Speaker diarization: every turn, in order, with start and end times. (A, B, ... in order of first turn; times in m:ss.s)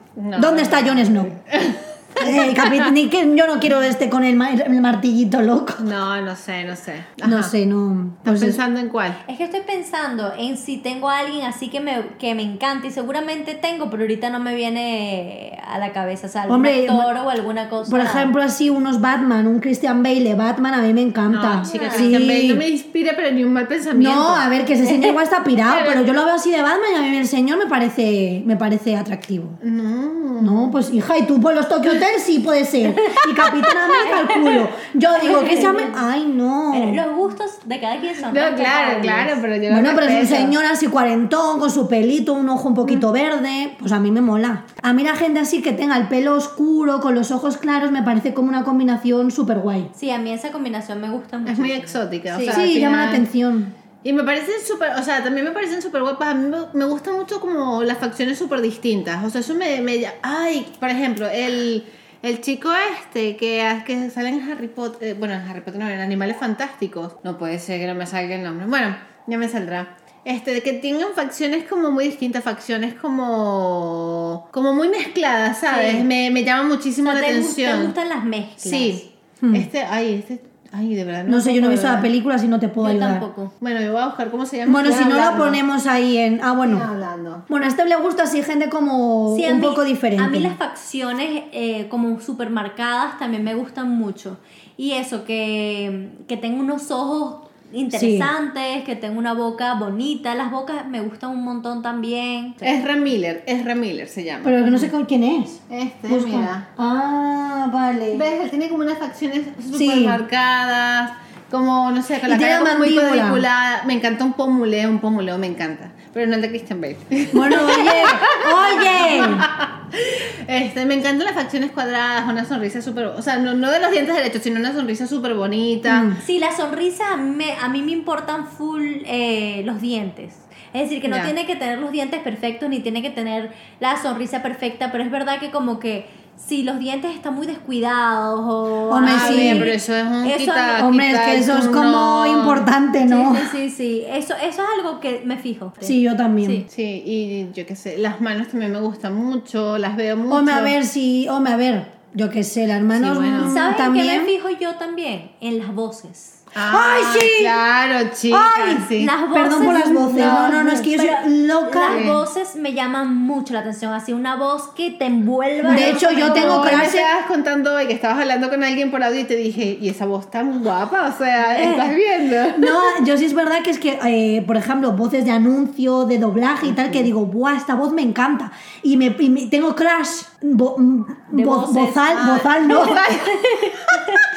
0:00.2-0:02.9 A
0:00.3-0:01.4 B
0:02.2-0:05.9 B
0:05.8-0:07.5 A
0:07.2-0:08.6 B
0:08.2-0:09.2 A
0:09.2-0:18.3 C
0:16.5-0:17.1 B
0:17.8-0:22.6 B
0:21.3-0:24.5 A
0:21.6-0:22.1 C
0:23.9-0:29.6 B
0:24.8-0:25.2 C
0:25.6-0:26.1 A
0:29.6-0:30.8 A
0:30.4-0:37.0 B
0:32.9-0:36.0 C
0:36.7-0:39.4 C
0:38.3-0:40.6 A
0:39.7-0:49.9 B
0:49.9-0:52.7 C
0:51.4-0:53.3 A
0:52.5-0:53.7 B
0:54.0-1:17.9 A
1:15.7-1:16.1 C
1:17.0-1:19.0 C
1:18.6-1:22.1 A
1:19.4-1:19.7 B
1:21.2-1:23.2 B
1:22.8-1:23.5 C
1:23.6-1:25.6 A
1:24.6-1:26.9 B
1:26.6-1:27.4 A
1:27.5-1:30.6 B
1:29.3-1:42.6 C
1:37.9-1:38.3 B
1:42.6-1:44.9 A
1:44.4-1:48.2 B
1:45.7-1:46.6 A
1:48.1-2:06.1 A
1:49.7-1:50.2 B
1:52.2-1:53.4 B
1:57.3-1:59.5 B
2:05.8-2:06.2 B
2:06.2-2:20.8 C
2:11.0-2:11.3 A
2:18.9-2:19.7 B
2:19.0-2:22.7 A
2:20.8-2:23.5 B
2:23.0-2:26.6 C
2:25.8-2:26.6 B
2:26.7-2:30.7 A
2:30.3-2:34.3 B
2:32.9-2:33.5 A
2:33.4-2:36.4 C
2:36.5-2:39.1 A
2:36.7-2:37.6 B
2:38.3-2:42.0 B
2:38.9-2:46.9 C
2:39.7-2:40.6 A
2:41.8-2:42.2 A
2:45.6-2:52.7 A
2:45.6-2:47.1 B
2:51.6-2:51.9 C
2:52.5-3:03.1 B
3:01.3-3:04.2 C
3:02.1-3:04.0 A